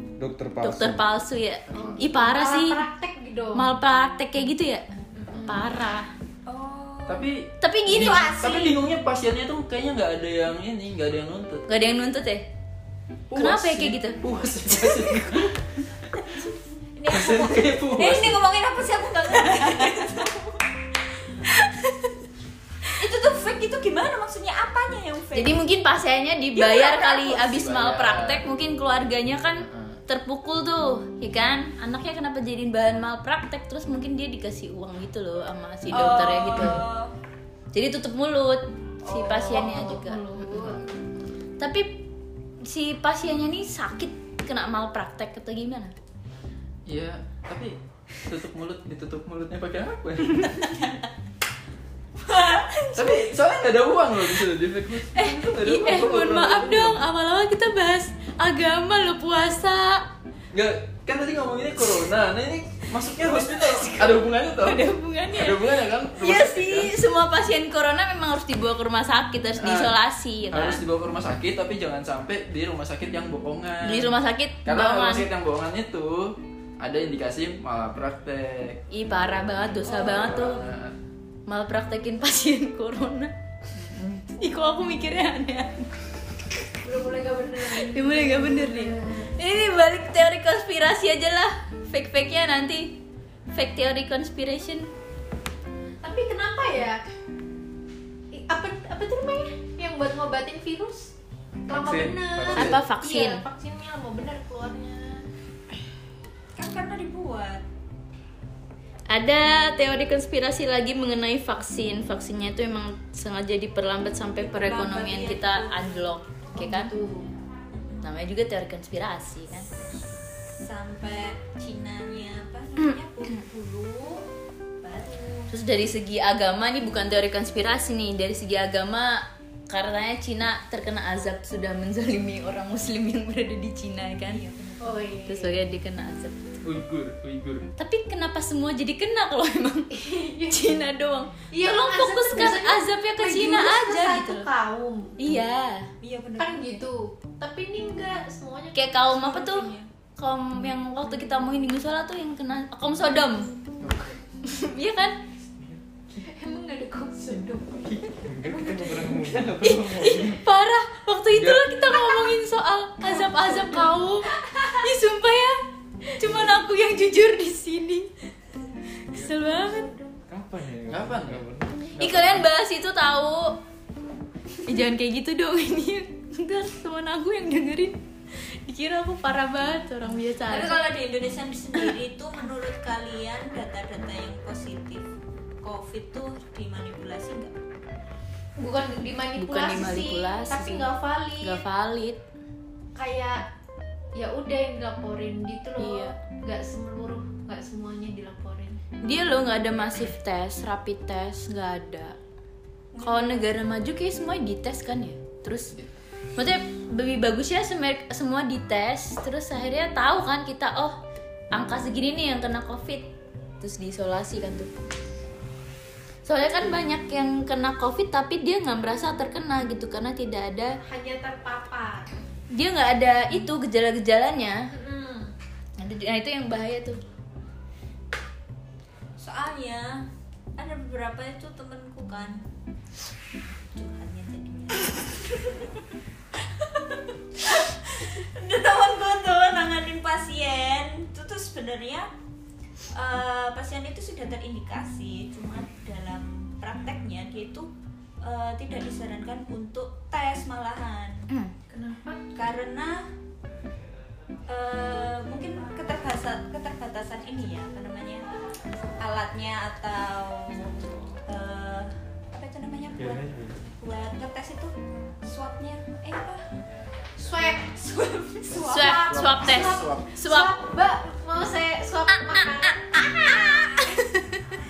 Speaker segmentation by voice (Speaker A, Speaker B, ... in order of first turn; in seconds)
Speaker A: 0.2-1.0, 101.7-102.8, 158.2-160.4, 170.3-171.9, 263.0-263.6
Speaker B: 0.6-2.8, 3.5-4.8, 5.5-6.1, 7.6-8.8, 11.7-12.5, 13.4-14.2, 14.8-15.1, 25.4-36.8, 37.7-40.2, 41.6-42.1, 42.6-45.9, 55.1-60.0, 63.3-70.8, 73.8-75.3, 78.9-80.6, 81.5-83.3, 84.4-85.9, 87.7-93.0, 93.5-94.9, 102.5-103.4, 109.1-116.9, 118.0-119.7, 125.5-134.4, 135.3-136.6, 137.8-139.9, 140.5-144.5, 145.2-145.9, 148.7-153.5, 154.4-155.2, 159.6-165.6, 166.1-168.1, 169.1-169.9, 172.0-173.6, 174.7-178.0, 178.7-180.8, 189.4-190.9, 191.4-192.2, 195.8-196.2, 199.0-202.2, 203.0-205.7, 206.4-211.0, 211.5-213.1, 213.6-214.7, 216.2-220.8, 222.5-224.7, 225.8-227.0, 268.6-270.6, 272.2-274.4
Speaker C: 1.7-2.0, 7.1-11.7, 13.3-15.6, 17.1-18.4, 27.2-28.4, 29.6-30.0, 40.6-40.9, 46.9-50.6, 53.0-57.0, 60.5-67.0, 69.6-70.0, 70.5-78.8, 79.8-81.0, 83.8-84.3, 136.6-137.7, 153.8-154.2, 157.3-158.2, 161.3-161.8, 170.9-171.4, 171.9-172.5, 269.1-270.1
Speaker D: 1.7-3.7, 5.2-5.5, 39.0-40.9, 86.8-89.3, 96.0-97.0, 98.3-101.1, 101.7-105.2, 116.6-117.3, 134.8-135.6, 139.9-140.6, 141.5-145.2, 146.4-149.6, 156.2-157.9, 158.5-159.3, 163.1-164.0, 164.5-164.8, 169.7-170.2, 188.6-191.6, 192.9-193.4, 194.1-198.8, 220.9-222.1, 224.7-225.3, 251.7-252.2, 267.2-267.9, 268.5-273.5
Speaker E: 6.5-7.3, 17.0-20.6, 23.0-25.6, 26.6-27.4, 35.9-37.1, 52.2-53.0, 106.6-107.6, 114.4-116.1, 117.8-118.1, 120.0-124.2, 124.8-125.5, 134.2-135.2, 146.0-146.8, 149.4-149.9, 180.5-187.6, 203.0-203.4, 229.2-230.1, 230.6-232.4, 233.7-235.8, 236.6-242.1, 242.9-247.7, 248.2-251.3, 252.3-253.1, 254.5-258.3, 259.0-266.4, 267.8-269.0